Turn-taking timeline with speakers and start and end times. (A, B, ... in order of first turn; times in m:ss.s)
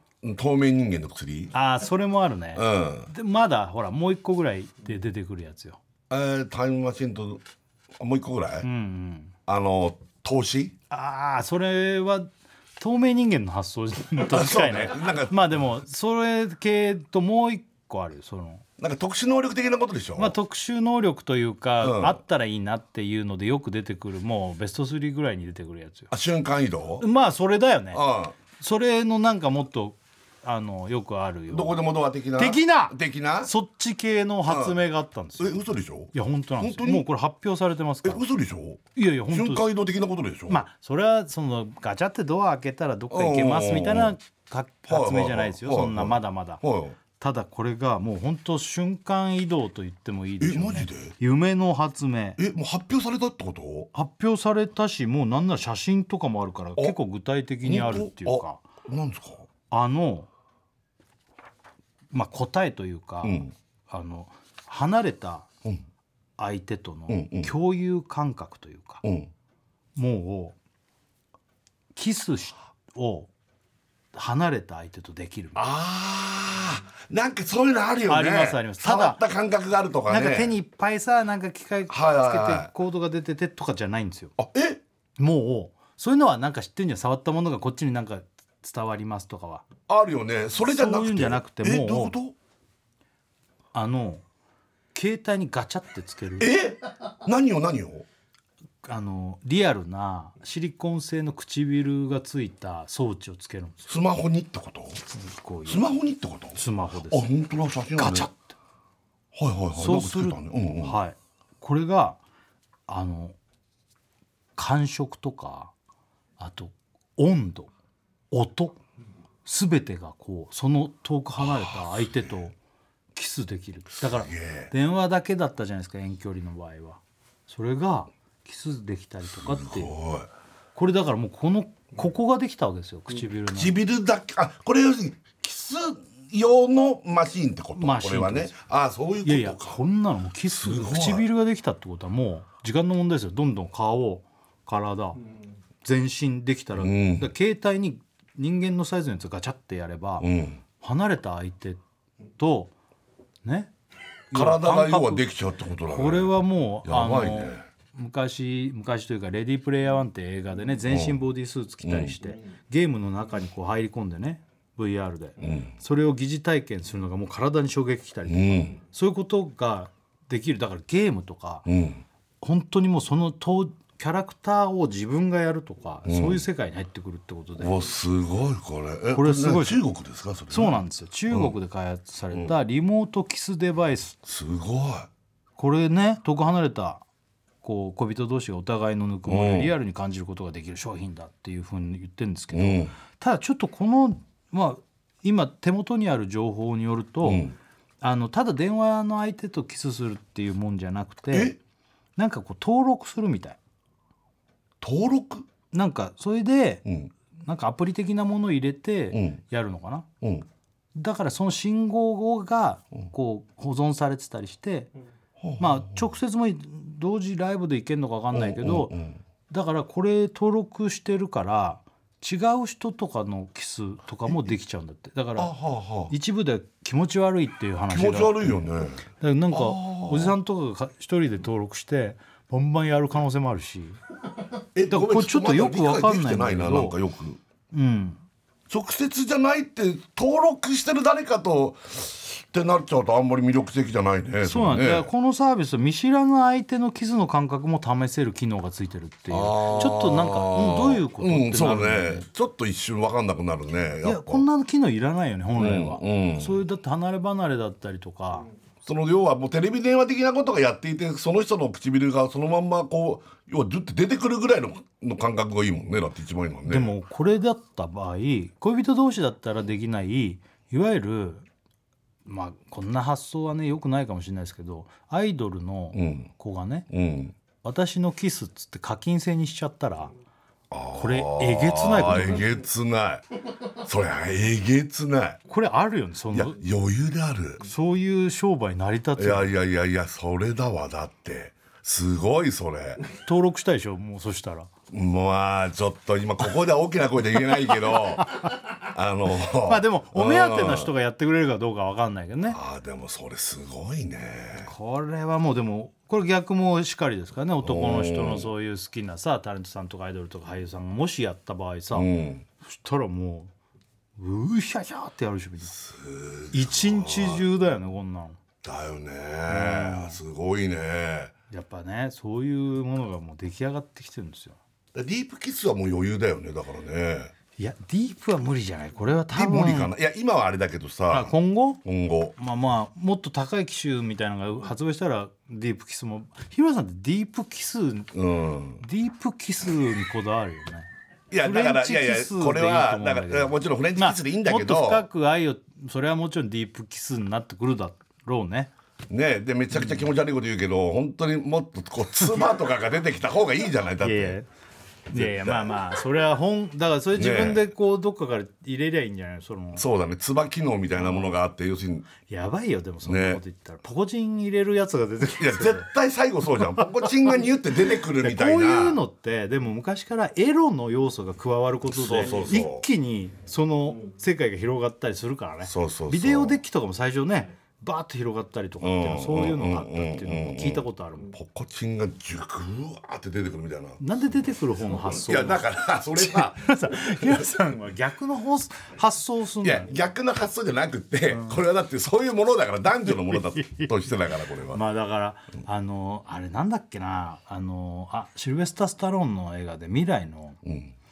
0:00.2-0:01.5 A
0:01.5-0:05.8 B
0:02.6-0:03.1 A
0:06.1-0:07.4 A
0:08.0-0:08.7 A
0:08.6-0:09.4 B
0:09.5-0:10.8 A
0:10.9-0:18.6 B
0:14.3-0:15.6 A
0:18.8-0:20.4 A
0:20.2-0:26.1 B
0:21.8-0:22.2 A
0:26.1-0:27.1 A
0:27.0-0:31.8 B
0:27.9-0:28.4 A
0:31.5-0:33.5 A
0:32.4-0:38.3 B
0:34.5-0:34.8 A
0:35.4-0:37.1 A
0:38.0-0:40.6 A
0:39.0-0:39.7 B
0:40.5-0:46.6 B
0:43.1-0:44.2 A
0:44.9-0:47.0 A
0:47.2-0:52.4 B
0:50.4-0:51.2 A
0:52.4-0:53.9 A
0:53.9-0:58.6 B
0:57.6-0:59.5 A
0:59.7-1:00.3 B
1:02.1-1:05.5 B
1:03.2-1:03.5 A
1:06.4-1:09.0 B
1:07.1-1:07.5 A
1:09.0-1:09.3 A
1:10.0-1:10.6 B
1:11.9-1:13.3 B
1:14.1-1:15.6 B
1:15.6-1:20.6 A
1:18.1-1:19.2 B
1:20.1-1:24.4 B
1:21.9-1:22.7 A
1:24.4-1:24.8 A
1:25.2-1:29.7 B
1:29.9-1:32.4 A
1:30.6-1:32.2 B
1:33.7-1:34.2 B
1:34.9-1:36.5 B
1:36.4-1:38.1 A
1:38.8-1:44.0 B
1:43.9-1:45.0 A
1:45.1-1:46.0 B
1:45.7-1:48.3 A
1:46.6-1:47.3 B
1:47.9-1:48.5 B
1:49.3-1:51.0 A
1:49.8-1:52.2 B
1:52.9-1:53.4 B
1:54.6-1:55.7 B
1:56.4-1:57.7 B
1:58.3-1:58.8 B
1:59.4-2:02.6 B
2:01.4-2:02.4 A
2:03.1-2:10.0 B
2:04.0-2:04.7 A
2:09.4-2:10.3 A
2:10.8-2:13.8 B
2:13.6-2:19.8 A
2:17.8-2:18.6 B
2:19.2-2:25.2 B
2:20.5-2:21.3 A
2:25.8-2:30.3 B
2:26.8-2:27.3 A
2:30.2-2:30.6 A
2:30.8-2:31.8 B
2:32.4-2:32.7 B
2:33.4-2:33.7 B
2:34.3-2:35.3 B
2:34.3-2:37.6 A
2:35.9-2:51.7 B
2:40.9-2:41.3 A
2:41.8-2:42.1 A
2:45.4-2:45.7 A
2:48.3-2:48.8 A
2:51.7-2:52.0 A
2:52.4-2:57.8 B
2:56.1-2:56.4 A
2:57.6-3:01.6 A
2:59.1-2:59.8 B
3:00.5-3:04.2 B
3:04.2-3:05.1 A
3:05.6-3:07.0 B
3:07.6-3:17.5 B
3:09.3-3:09.7 A
3:12.5-3:12.9 A
3:17.2-3:17.6 A
3:18.0-3:21.6 B
3:21.3-3:21.6 A
3:22.2-3:23.6 B
3:24.8-3:25.5 A
3:25.7-3:26.8 B
3:26.9-3:27.1 A
3:27.4-3:30.1 B
3:29.1-3:29.4 A
3:30.2-3:30.5 A
3:31.0-3:34.9 B
3:35.4-3:36.1 A
3:35.6-3:38.9 B
3:38.3-3:39.2 A
3:39.5-3:45.5 B
3:45.4-3:46.1 A
3:46.1-3:54.0 B
3:47.9-3:50.4 A
3:54.8-3:57.4 A
3:54.9-3:57.0 B
3:57.7-3:58.2 B
3:58.7-4:05.1 A
4:04.4-4:12.3 B
4:09.3-4:14.4 A
4:14.0-4:18.5 B
4:15.6-4:16.6 A
4:18.8-4:27.0 A
4:26.7-4:31.5 B
4:32.3-4:36.9 B
4:35.9-4:36.3 A
4:36.9-4:37.4 A
4:37.6-4:40.1 B
4:40.7-4:43.2 A
4:40.9-4:42.5 B
4:43.8-4:45.4 A
4:45.5-4:46.6 B
4:46.3-4:47.7 A
4:47.6-4:49.5 B
4:49.2-4:53.0 A
4:53.2-4:54.7 B
4:54.9-5:00.9 A
4:58.2-4:58.5 B
4:59.6-5:02.6 B
5:02.5-5:04.7 A
5:04.6-5:12.1 B
5:07.6-5:08.5 A
5:11.9-5:12.4 A
5:12.6-5:13.5 B
5:14.2-5:15.8 B
5:15.7-5:17.4 A
5:16.5-5:18.4 B
5:18.6-5:21.3 A
5:19.5-5:20.2 B
5:21.5-5:24.6 B
5:24.9-5:27.3 A
5:27.6-5:29.9 B
5:29.3-5:32.4 A
5:31.1-5:31.8 B
5:32.4-5:38.1 B
5:38.1-5:38.8 A
5:38.8-5:40.9 B
5:41.3-5:45.1 A
5:41.4-5:48.7 B
5:49.1-5:54.4 A
5:49.7-5:50.1 B
5:54.0-5:54.5 B
5:55.1-5:59.9 B
5:55.1-5:55.8 A
5:57.2-5:57.7 A
5:59.8-6:02.1 A
6:02.3-6:05.9 B
6:03.0-6:03.4 A
6:05.4-6:09.0 A
6:08.2-6:21.3 B
6:11.8-6:12.9 A
6:15.6-6:16.6 A
6:18.8-6:24.0 A
6:24.0-6:29.9 B
6:25.0-6:27.5 A
6:29.6-6:34.8 A
6:31.3-6:31.6 B
6:33.1-6:33.9 B
6:34.7-6:40.6 B
6:40.6-6:40.9 A